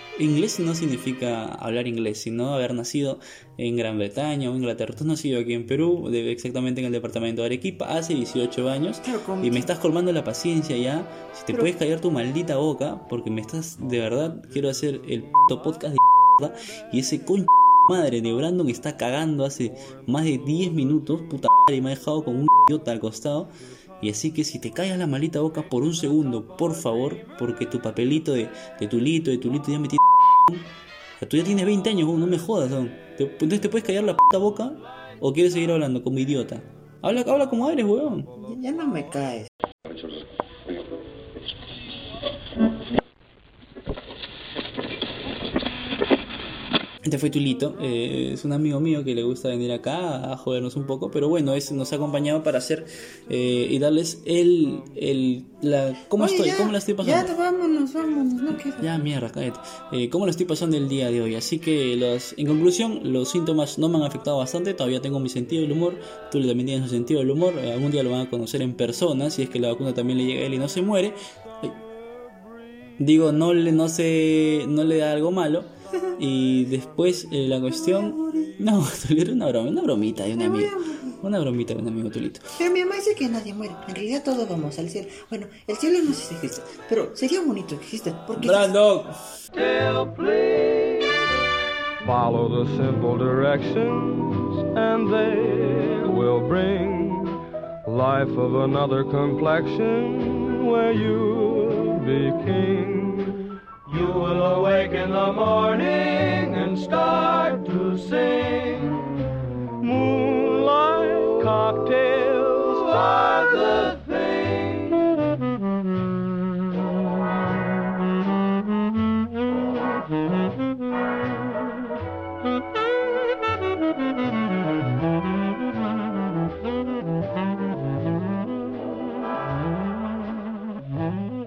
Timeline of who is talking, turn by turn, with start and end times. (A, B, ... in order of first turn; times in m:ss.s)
0:00.2-0:38.3 A
0:09.0-0:09.7 B
0:38.4-0:39.5 B
0:47.0-0:57.3 A
0:56.2-0:58.9 B
0:58.8-1:11.8 A
1:13.0-1:22.4 A
1:17.8-1:18.6 B
1:20.4-1:21.2 B
1:22.6-1:28.7 B
1:28.4-1:29.2 A
1:29.5-1:31.4 C
1:32.0-1:55.4 C